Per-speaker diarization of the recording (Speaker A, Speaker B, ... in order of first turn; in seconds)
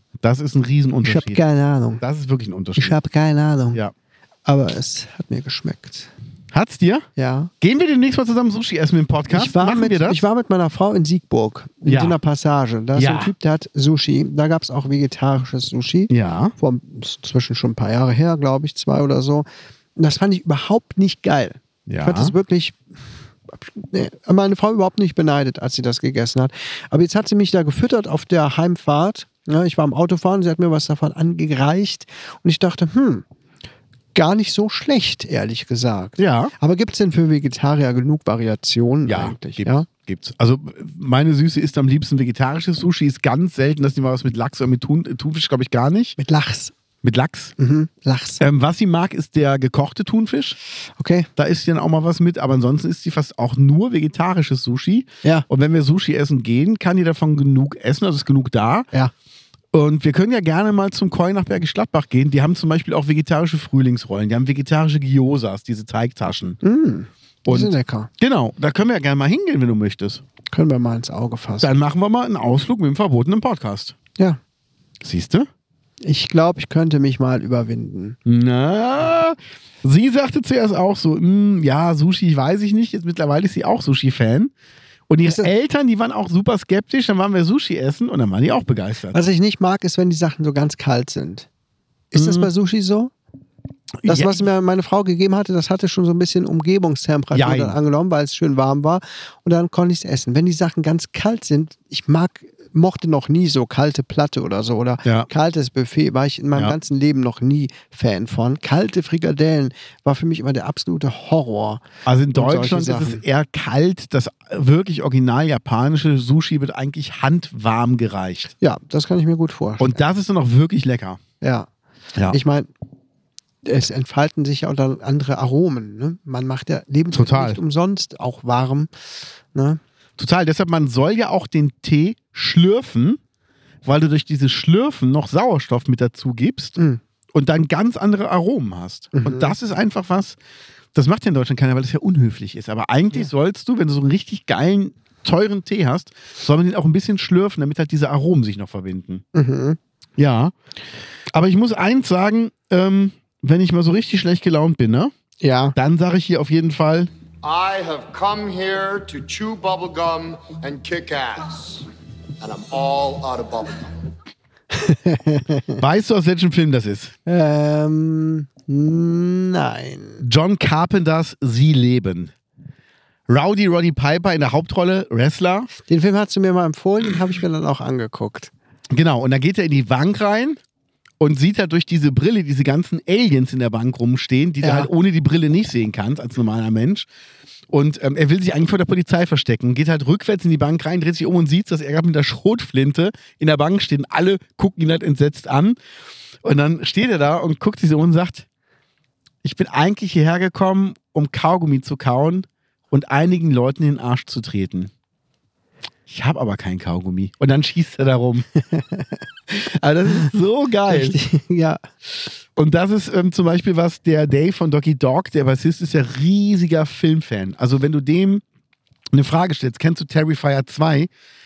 Speaker A: 0.2-1.4, 2.0-3.0, 6.5-7.1, 7.6-10.2, 11.8-12.2, 12.9-13.3, 16.1-16.5, 21.9-22.3, 36.2-36.5, 39.0-46.2, 47.0-47.5, 48.4-50.6, 51.4-58.9, 59.7-66.6, 67.5-70.2, 71.6-73.9, 75.0-75.5, 78.2-84.5, 85.1-89.2, 92.1-92.5, 94.0-94.4, 97.3-97.8, 112.0-118.5, 119.8-121.2, 127.1-127.6, 130.2-133.2, 133.8-136.8, 137.3-140.3, 140.9-149.2, 150.2-150.5, 151.3-155.1, 155.8-157.1, 165.8-167.1, 170.2-172.3, 173.3-175.7, 178.9-180.6, 181.2-187.1, 187.7-195.8, 196.4-198.4, 199.4-204.9, 206.1-208.5, 209.5-211.2, 212.6-218.4, 219.1-221.1
Speaker B: 1.0-2.0, 2.8-3.8, 4.5-6.1, 7.2-7.5, 9.3-19.4, 20.0-22.8, 23.5-33.2, 34.1-39.9, 46.2-46.7, 47.6-48.4, 51.0-51.3, 66.6-68.1, 70.5-71.7, 76.0-78.2, 85.2-85.5, 89.1-91.5, 92.1-93.1, 94.0-111.8, 112.3-113.2, 118.6-120.0, 121.4-121.7, 122.3-122.7, 123.6-128.9, 129.5-129.8, 139.1-139.5, 149.3-149.8, 155.4-155.8, 164.7-165.8, 167.2-170.2, 175.9-178.5, 184.6-184.9, 208.7-209.1, 210.9-211.8
Speaker C: 157.4-161.8, 162.4-163.9